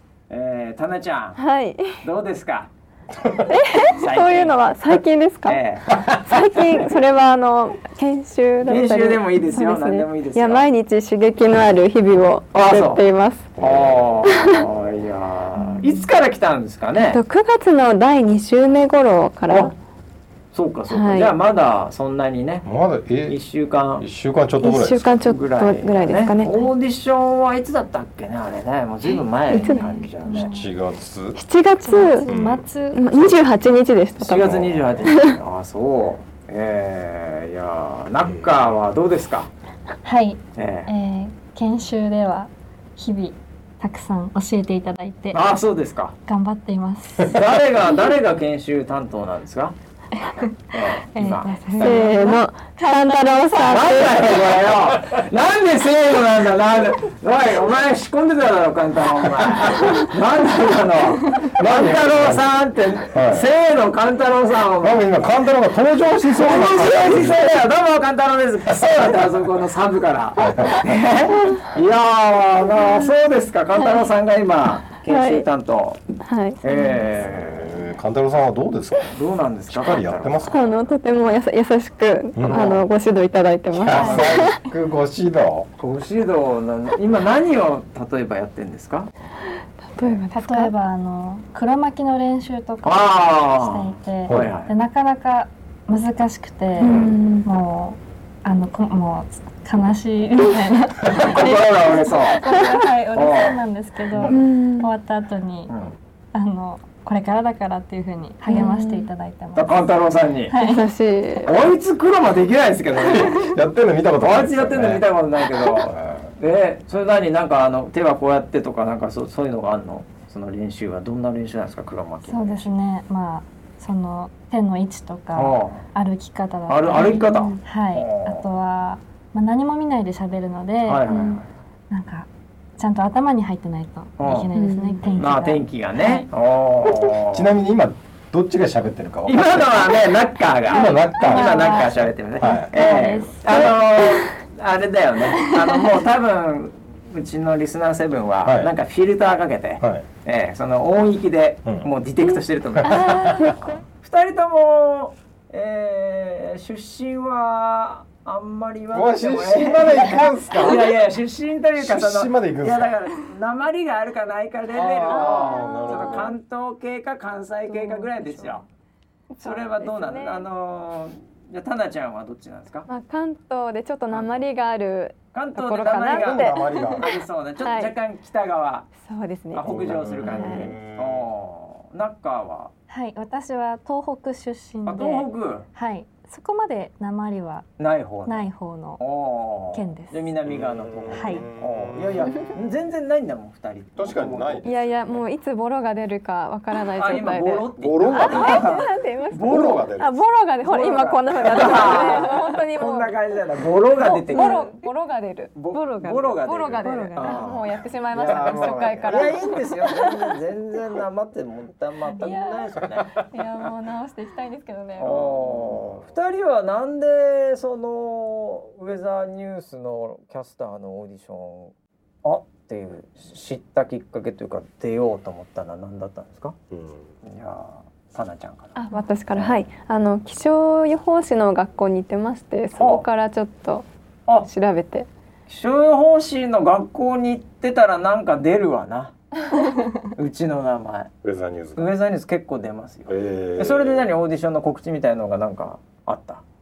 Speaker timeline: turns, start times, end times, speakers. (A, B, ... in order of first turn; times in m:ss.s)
0:00.3-0:01.4 A
0:01.4-0:02.0 B
0:02.0-0:02.7 A
0:03.2-0:03.5 C
0:03.5-0:13.5 B
0:03.8-0:04.7 A
0:05.4-0:06.2 A
0:08.6-0:10.6 A
0:12.5-0:13.0 A
0:13.6-0:14.3 C
0:13.6-0:17.2 A
0:14.2-0:14.6 B
0:15.6-0:16.0 B
0:17.1-0:19.7 B
0:20.5-0:22.7 A
0:20.9-0:21.3 B
0:22.6-0:23.4 C
0:23.3-0:24.0 A
0:24.0-0:25.3 C
0:24.6-0:26.7 B
0:25.2-0:30.5 A
0:29.5-0:30.5 B
0:30.3-0:30.7 D
0:30.3-0:31.4 C
0:31.4-0:32.3 B
0:31.8-0:33.4 D
0:32.3-0:32.6 C
0:32.9-0:35.4 B
0:34.2-0:39.5 A
0:34.4-0:35.1 C
0:38.3-0:38.5 C
0:40.0-0:45.4 D
0:40.6-0:40.9 A
0:45.3-0:46.1 A
0:46.3-0:47.4 D
0:47.2-0:49.8 A
0:50.2-0:54.2 D
0:50.7-0:52.2 A
0:51.8-0:54.4 B
0:53.6-1:05.0 A
0:59.6-0:59.9 C
1:01.4-1:02.5 C
1:03.1-1:03.5 C
1:04.8-1:07.4 C
1:06.3-1:16.0 A
1:10.4-1:10.9 C
1:15.1-1:15.4 B
1:16.2-1:17.0 B
1:16.6-1:17.9 A
1:17.1-1:19.2 C
1:19.1-1:20.5 A
1:19.7-1:20.9 C
1:20.5-1:24.6 B
1:22.4-1:22.7 C
1:22.4-1:22.8 A
1:23.7-1:25.7 C
1:23.9-1:24.5 A
1:23.9-1:24.3 D
1:25.8-1:29.1 A
1:29.9-1:30.7 B
1:30.3-1:45.7 D
1:32.8-1:34.7 A
1:34.2-1:34.5 C
1:36.8-1:37.5 B
1:41.1-1:42.4 A
1:42.4-1:42.8 B
1:43.1-1:44.4 A
1:44.3-1:44.9 B
1:45.7-1:45.9 A
1:46.3-1:49.9 D
1:48.4-1:49.1 B
1:49.5-1:50.6 A
1:50.5-1:50.8 D
1:50.5-1:51.5 B
1:51.4-1:53.6 A
1:53.1-1:56.3 C
1:54.2-2:02.7 A
2:02.2-2:11.1 D
2:05.3-2:05.8 A
2:06.7-2:08.5 A
2:06.9-2:07.6 B
2:10.8-2:11.5 A
2:11.1-2:11.4 B
2:11.9-2:16.3 D
2:14.2-2:14.5 A
2:14.5-2:15.0 B
2:15.1-2:17.6 A
2:16.8-2:20.0 C
2:19.2-2:48.6 A
2:20.7-2:21.7 C
2:20.7-2:23.8 D
2:21.3-2:21.8 B
2:22.4-2:22.7 C
2:28.4-2:28.7 C
2:32.8-2:33.5 C
2:32.8-2:33.6 B
2:38.9-2:40.9 C
2:41.8-2:42.9 C
2:44.7-2:46.3 C
2:45.1-2:46.3 B
2:47.7-2:48.6 B
2:49.3-2:50.4 B
2:49.4-2:52.9 A
2:52.9-2:57.1 B
2:54.1-2:54.4 A
2:55.3-2:58.9 A
2:56.1-2:57.1 C
2:57.6-2:57.9 B
2:59.0-3:00.7 B
2:59.5-3:02.7 A
2:59.6-3:01.2 C
3:00.3-3:00.7 D
3:02.9-3:07.7 D
3:04.8-3:05.7 A
3:07.8-3:08.5 A
3:08.2-3:09.0 D
3:09.0-3:14.7 A
3:09.7-3:10.2 D
3:10.5-3:12.6 C
3:11.1-3:11.4 D
3:14.0-3:15.1 C
3:14.6-3:23.1 B
3:17.0-3:19.9 A
3:17.8-3:18.7 C
3:19.4-3:20.2 C
3:20.6-3:24.7 A
3:24.0-3:30.4 B
3:25.5-3:33.2 A
3:26.8-3:27.5 D
3:28.3-3:28.5 D
3:32.2-3:35.4 B
3:35.0-3:41.7 A
3:35.5-3:36.1 C
3:42.2-3:46.6 A
3:46.7-3:47.1 C
3:47.2-3:48.8 A
3:48.8-3:53.8 B
3:52.8-3:53.0 A
3:54.4-3:55.1 B
3:55.5-3:59.1 A
4:00.0-4:01.1 A
4:01.2-4:01.9 C
4:01.8-4:06.4 A
4:03.1-4:04.1 C